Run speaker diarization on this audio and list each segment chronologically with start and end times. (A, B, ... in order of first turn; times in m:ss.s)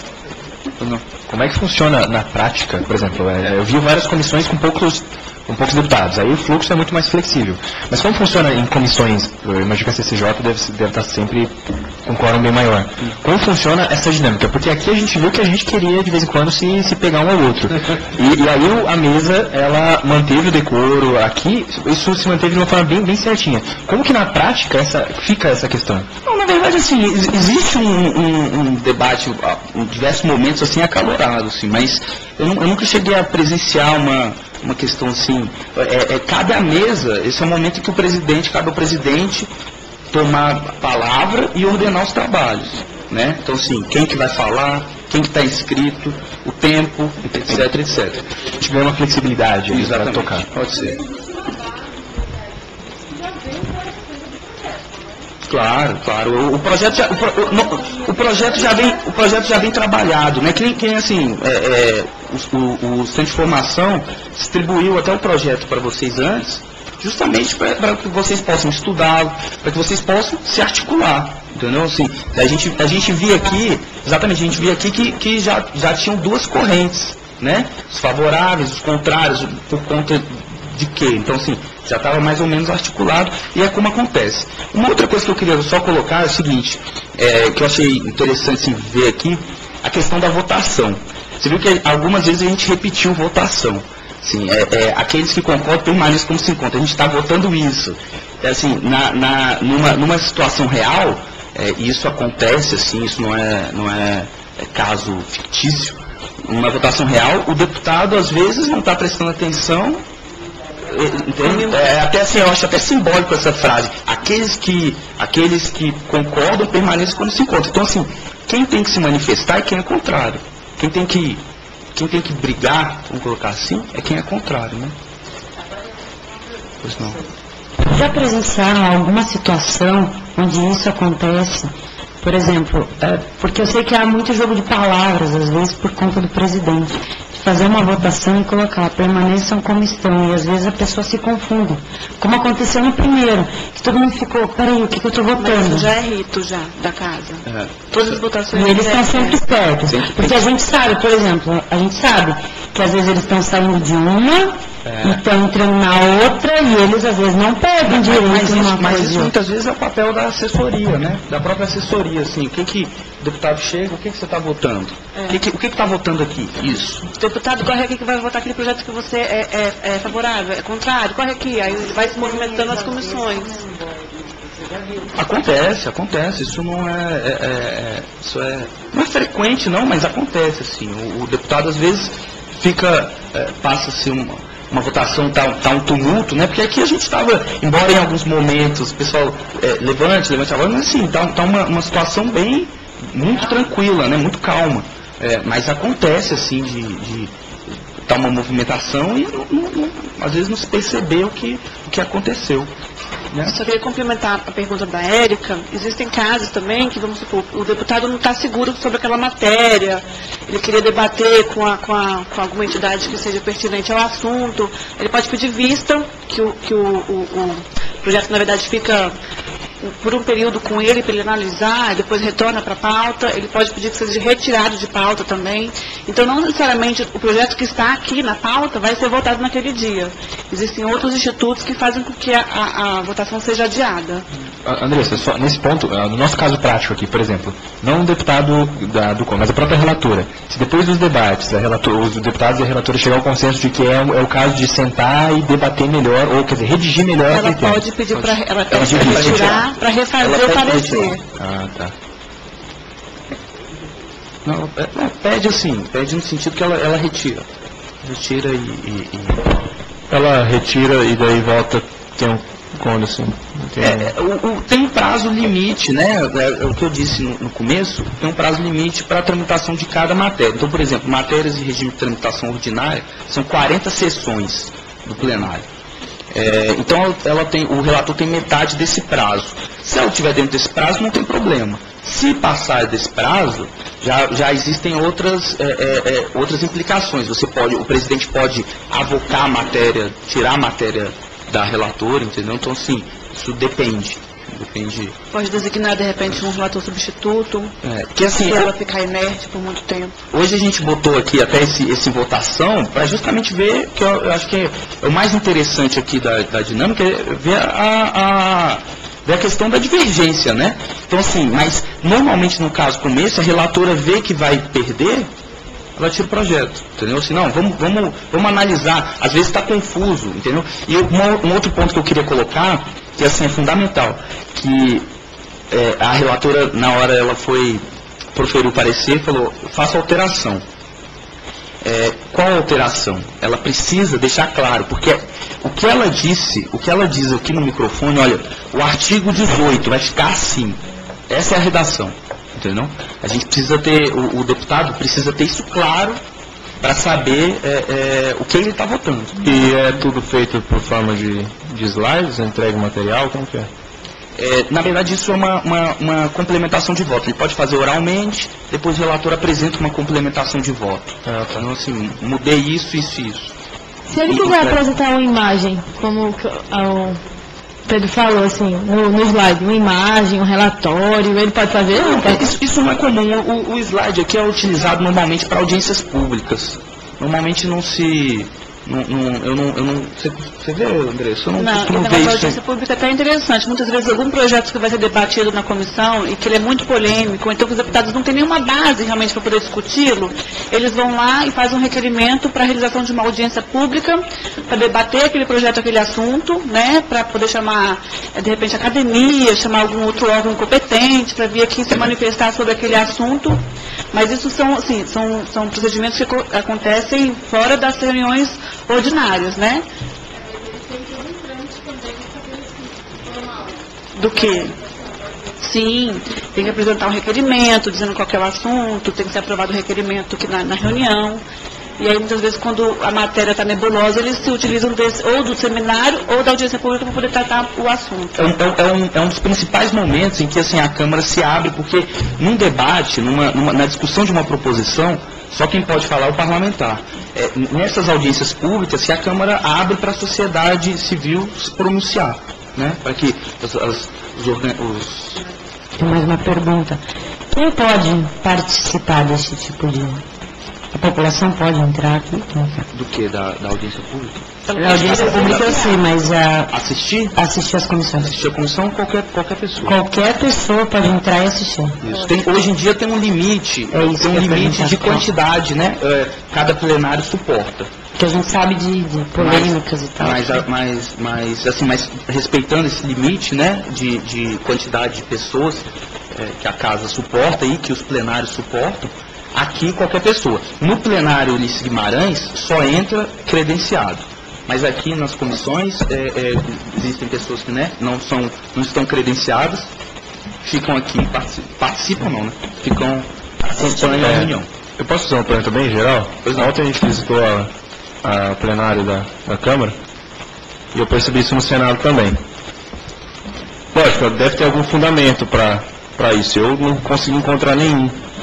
0:00.8-0:01.1 A
0:01.2-0:26.1 B
0:26.2-0:39.5 A
0:40.1-0:48.2 A
0:48.6-0:50.4 B
0:49.7-0:51.0 A
0:55.4-1:50.0 A
1:50.9-2:01.4 A
2:01.9-2:04.9 A
2:06.8-2:07.2 A
2:07.8-2:25.9 C
2:25.4-2:29.4 D
2:27.4-2:27.8 A
2:28.5-2:39.3 C
2:29.8-2:30.4 A
2:34.8-2:35.2 A
2:37.9-2:47.0 A
2:47.1-2:53.6 D
2:55.2-3:17.3 A
3:18.0-3:22.7 A
3:23.4-3:39.1 D
3:39.8-3:54.2 D
3:54.6-4:07.8 B
4:07.3-4:11.2 D
4:08.2-4:09.6 A
4:08.7-4:09.6 B
4:10.2-4:11.1 A
4:14.4-4:17.5 A
4:18.0-4:19.6 A
4:20.1-4:24.1 E
4:23.8-4:35.6 A
4:36.3-4:55.2 A
4:55.3-5:00.2 D
4:57.8-4:58.6 A
5:00.3-5:15.3 A
5:16.0-5:25.1 A
5:25.7-5:30.6 A
5:31.8-5:46.2 A
5:46.8-5:49.4 A
5:49.4-5:53.7 E
5:54.4-6:03.5 A
6:01.3-6:01.6 E
6:04.1-6:07.2 F
6:04.3-6:04.8 A
6:07.9-6:12.5 F
6:11.9-6:22.6 A
6:21.6-6:49.8 D
6:54.1-6:54.8 D
6:55.6-7:01.4 D
7:02.0-7:08.4 D
7:08.4-7:25.4 A
7:26.0-7:27.0 C
7:27.5-7:30.2 C
7:30.9-7:32.8 C
7:32.9-7:35.9 A
7:34.7-7:36.8 C
7:36.7-7:37.3 A
7:37.3-7:38.4 C
7:38.2-7:40.0 A
7:39.8-7:42.0 C
7:42.0-7:47.9 A
7:43.9-7:45.3 C
7:48.2-7:50.6 C
7:49.4-8:09.9 A
8:10.6-8:14.7 A
8:14.1-8:17.7 E
8:16.4-8:16.7 A
8:18.2-8:20.0 E
8:20.9-8:22.4 E
8:23.9-8:28.2 E